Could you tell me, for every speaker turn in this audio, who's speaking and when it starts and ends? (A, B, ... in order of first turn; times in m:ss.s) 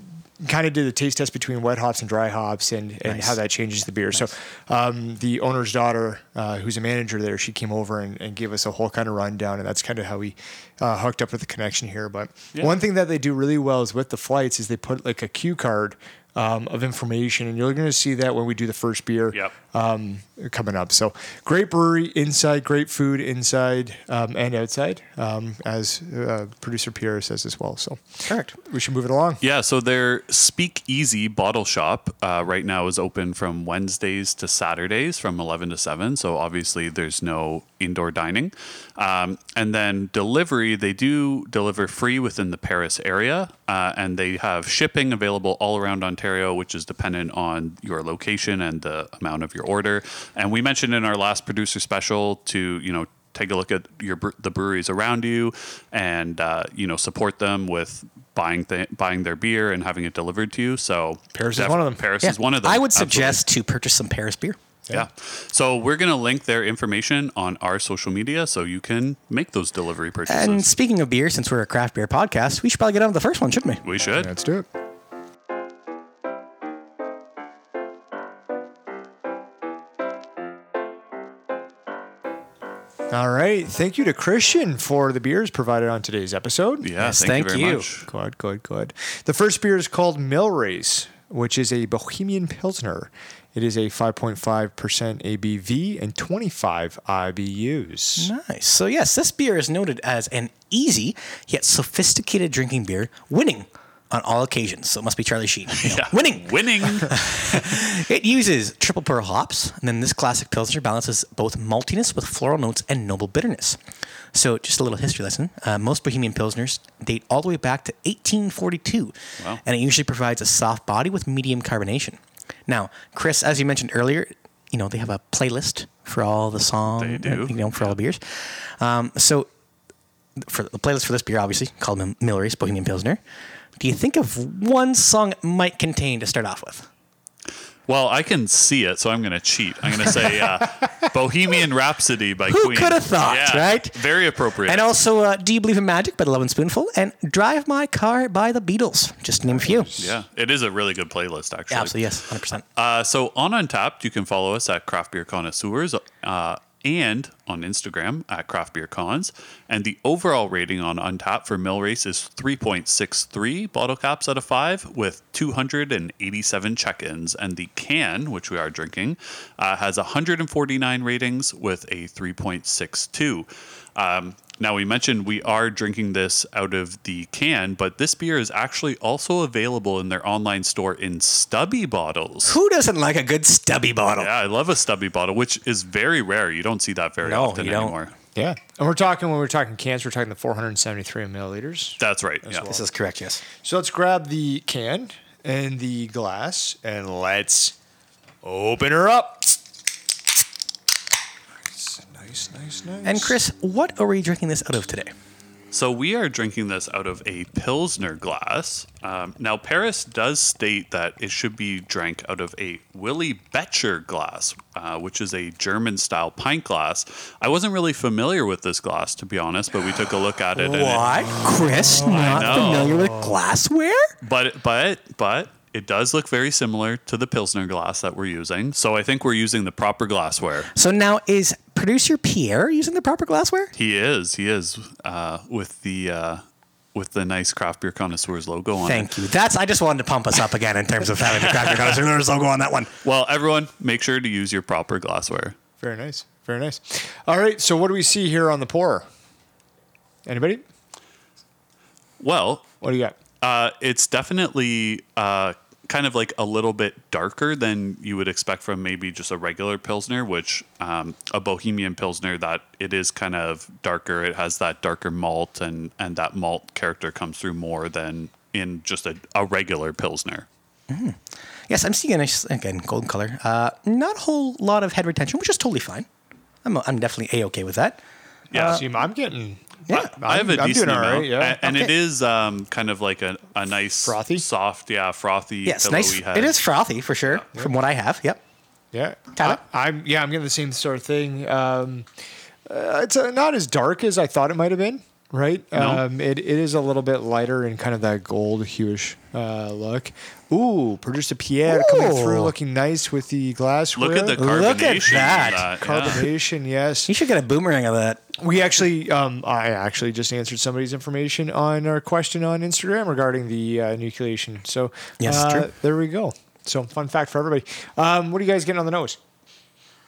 0:00.4-0:29.4 A
0:03.0-0:03.4 B
0:28.2-0:28.5 B
0:29.4-1:03.4 C
1:01.3-1:02.0 A
1:02.2-1:04.6 B
1:04.9-1:10.7 C
1:10.3-1:13.8 B
1:13.8-1:14.3 C
1:14.2-1:14.6 A
1:23.1-1:26.9 A
1:26.8-1:28.1 C
1:27.0-1:27.9 B
1:28.0-1:38.3 A
1:38.2-1:53.8 B
1:45.7-1:47.8 C
1:54.3-2:09.5 B
2:06.9-2:07.9 C
2:10.4-2:13.2 B
2:13.8-2:16.9 B
2:17.9-2:24.9 C
2:22.5-2:24.0 B
2:24.6-2:29.9 B
2:29.4-2:30.1 A
2:30.0-2:32.0 C
2:31.7-2:32.6 B
2:32.7-3:02.6 C
3:02.4-3:04.3 B
3:04.2-3:08.1 C
3:07.2-3:07.9 B
3:08.3-3:12.8 A
3:12.0-3:12.7 C
3:12.6-3:13.4 B
3:13.6-3:17.7 A
3:18.4-3:19.6 A
3:21.7-3:23.4 A
3:23.0-3:25.1 B
3:25.7-3:43.0 C
3:40.6-3:44.1 B
3:41.4-3:43.3 A
3:44.2-3:50.7 C
3:50.7-3:53.7 B
3:53.7-3:56.4 C
3:56.9-3:59.1 C
3:58.8-4:02.9 B
4:01.3-4:02.0 C
4:03.0-4:05.6 C
4:05.8-4:09.0 A
4:10.2-4:10.6 A
4:12.2-4:12.6 C
4:12.8-4:13.2 A
4:13.4-4:30.5 C
4:30.9-4:36.0 B
4:36.6-4:38.0 B
4:38.5-4:38.8 C
4:38.5-4:38.8 B
4:38.7-4:41.9 A
4:39.9-4:46.6 C
4:44.0-4:44.4 A
4:45.6-4:48.4 B
4:48.9-4:52.1 A
4:52.6-5:04.6 A
4:55.7-4:56.0 C
5:01.7-5:02.5 B
5:03.9-5:06.2 C
5:04.4-5:05.7 B
5:05.2-5:07.1 A
5:07.1-5:08.3 B
5:08.4-5:19.2 A
5:15.2-5:15.7 B